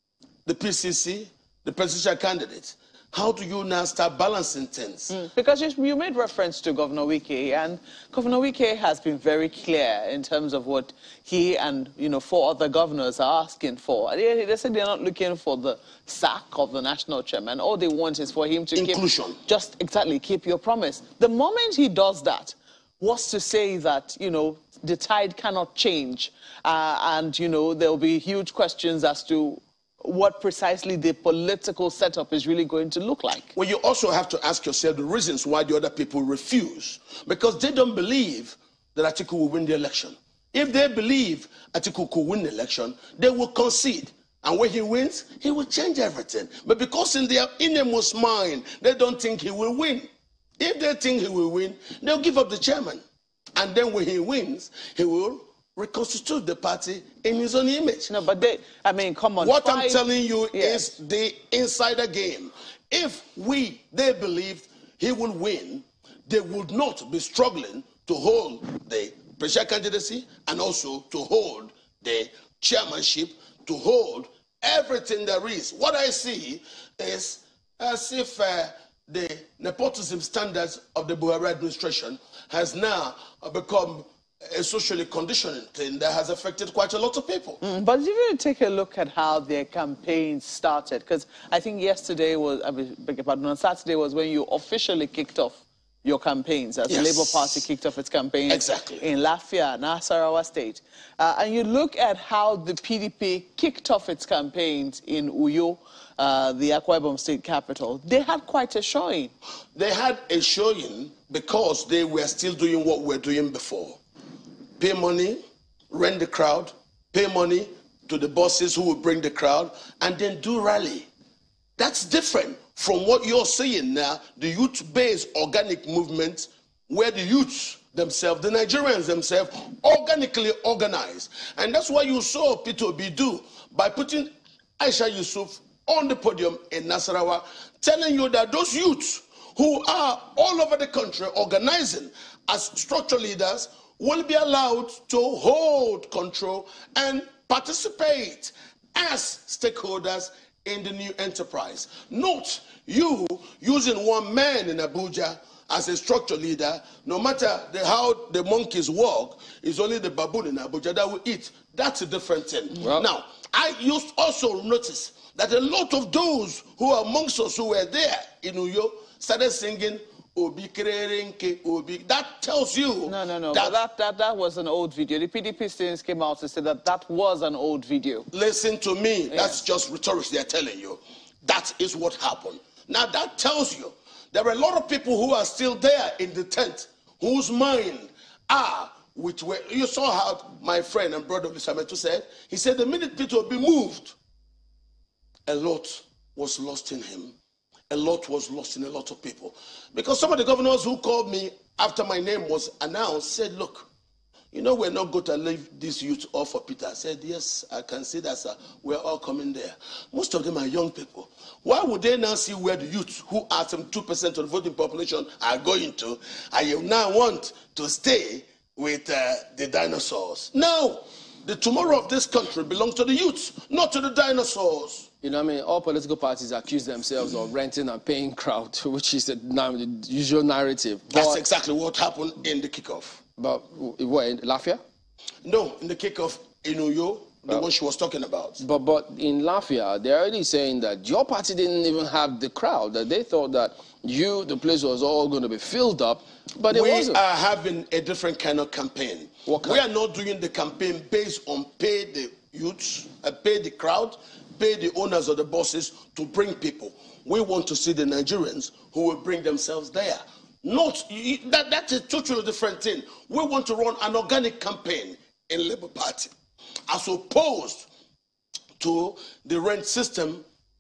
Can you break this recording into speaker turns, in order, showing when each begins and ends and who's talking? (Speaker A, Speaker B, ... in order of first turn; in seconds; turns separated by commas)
Speaker A: 0.5-5.2, Speaker B: 5.1-33.5, Speaker A: 18.8-19.4, Speaker A: 33.5-50.1, Speaker A: 50.6-53.0, Speaker A: 53.6-58.1, Speaker B: 58.1-60.0, Speaker A: 59.4-87.6, Speaker B: 60.5-60.9, Speaker B: 87.6-109.3, Speaker A: 96.9-97.6, Speaker A: 98.5-99.0, Speaker A: 109.8-114.0, Speaker A: 114.8-115.4, Speaker A: 115.9-121.1, Speaker A: 121.8-173.8, Speaker C: 162.8-163.1, Speaker B: 173.1-178.3, Speaker A: 178.3-194.2, Speaker B: 179.3-179.6, Speaker A: 195.5-197.4, Speaker A: 197.9-203.9, Speaker A: 204.5-225.1, Speaker C: 225.2-231.4, Speaker A: 231.1-233.2, Speaker C: 233.4-234.8, Speaker A: 235.4-238.6, Speaker C: 238.6-247.2, Speaker A: 246.7-266.3, Speaker C: 249.5-249.8, Speaker A: 266.9-267.9, Speaker A: 268.8-270.4